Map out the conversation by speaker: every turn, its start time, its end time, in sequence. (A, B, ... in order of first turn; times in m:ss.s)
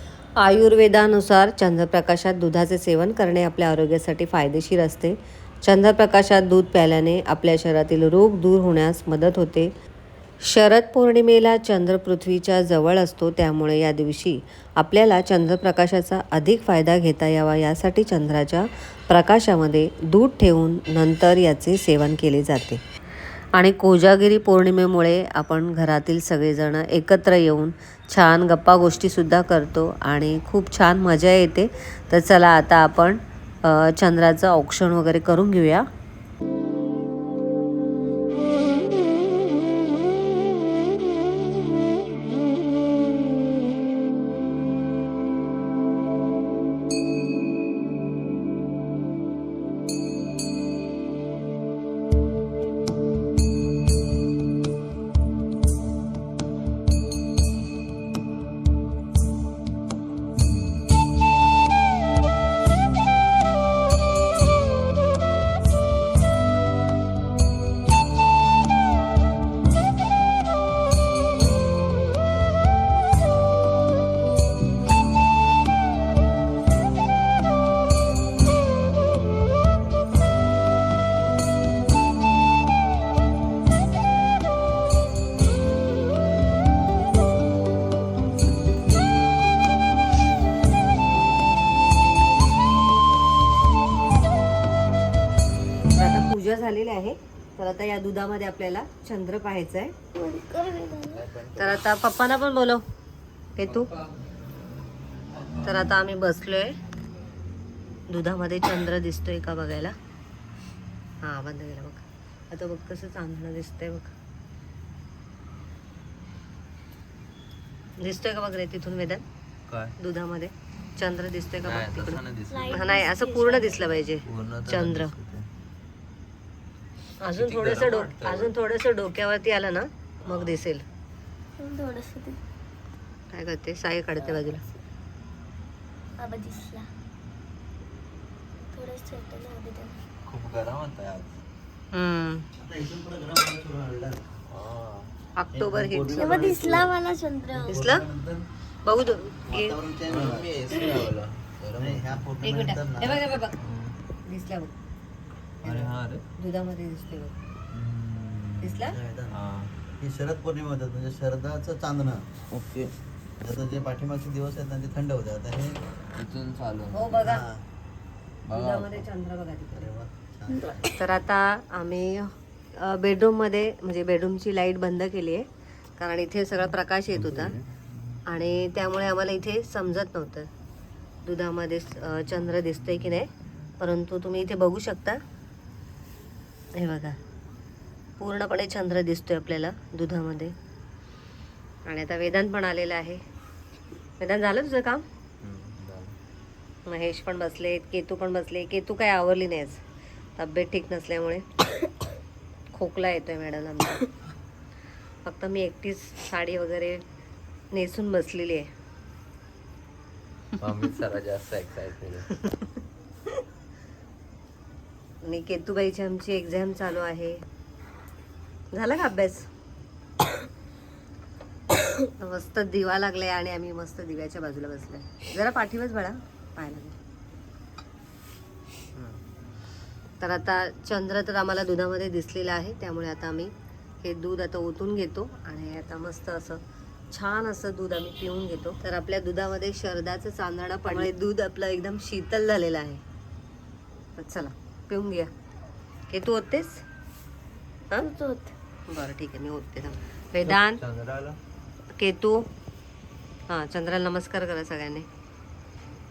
0:00.4-0:09.7 A
0:10.4-0:22.8 A
0:23.5-0:35.9 A
1:35.9-1:40.0 A
1:40.2-1:41.3 B
1:41.1-1:41.8 C
1:41.5-1:42.8 A
1:43.6-1:43.9 A
1:45.6-1:46.8 A
1:48.1-1:50.0 A
1:51.2-1:54.1 A
1:58.0-1:59.2 A
1:59.7-2:00.0 C
2:00.0-2:05.1 A
2:01.6-2:02.8 C
2:02.5-2:04.0 B
2:04.2-2:05.5 C
2:07.2-2:10.8 A
2:07.3-2:08.5 C
2:10.2-2:10.6 C
2:11.6-2:12.4 B
2:13.3-2:14.6 A
2:16.2-2:16.9 B
2:18.7-2:20.0 B
2:20.2-2:21.4 C
2:21.9-2:22.5 A
2:22.6-2:24.2 D
2:24.5-2:25.1 C
2:25.4-2:26.4 A
2:25.5-2:26.9 D
2:26.2-2:27.8 B
2:27.5-2:28.5 D
2:27.7-2:28.0 A
2:28.8-2:29.8 A
2:29.5-2:30.6 D
2:30.1-2:32.2 C
2:31.7-2:33.3 D
2:32.4-2:33.6 A
2:33.6-2:33.9 C
2:34.3-2:34.7 A
2:35.6-2:37.4 A
2:35.6-2:36.2 C
2:37.7-2:39.7 C
2:38.6-2:39.0 A
2:38.8-2:39.4 D
2:40.0-2:42.3 D
2:42.5-2:42.9 C
2:43.4-2:45.8 D
2:46.1-2:47.3 C
2:46.9-2:47.4 A
2:47.2-2:47.6 D
2:48.4-2:49.0 C
2:48.5-2:49.9 A
2:49.7-2:50.9 D
2:50.9-2:57.6 A
2:57.1-2:57.6 D
2:58.3-3:00.5 A
3:01.2-3:05.2 A
3:06.7-3:07.2 A
3:08.2-3:10.6 A
3:11.8-3:13.2 A
3:14.2-3:15.0 A
3:15.4-3:16.2 C
3:16.8-3:19.8 A
3:20.4-3:21.6 A
3:22.7-3:24.1 A
3:25.2-3:27.0 A
3:27.7-3:28.7 A
3:30.6-3:32.4 C
3:35.2-3:37.4 A
3:38.7-3:39.5 A
3:42.0-3:47.0 A
3:50.2-4:03.0 A
4:04.2-4:05.3 A
4:06.1-4:06.8 A
4:08.0-4:08.5 B
4:08.9-4:10.8 A
4:10.4-4:11.4 C
4:11.9-4:12.5 A
4:13.5-4:15.1 A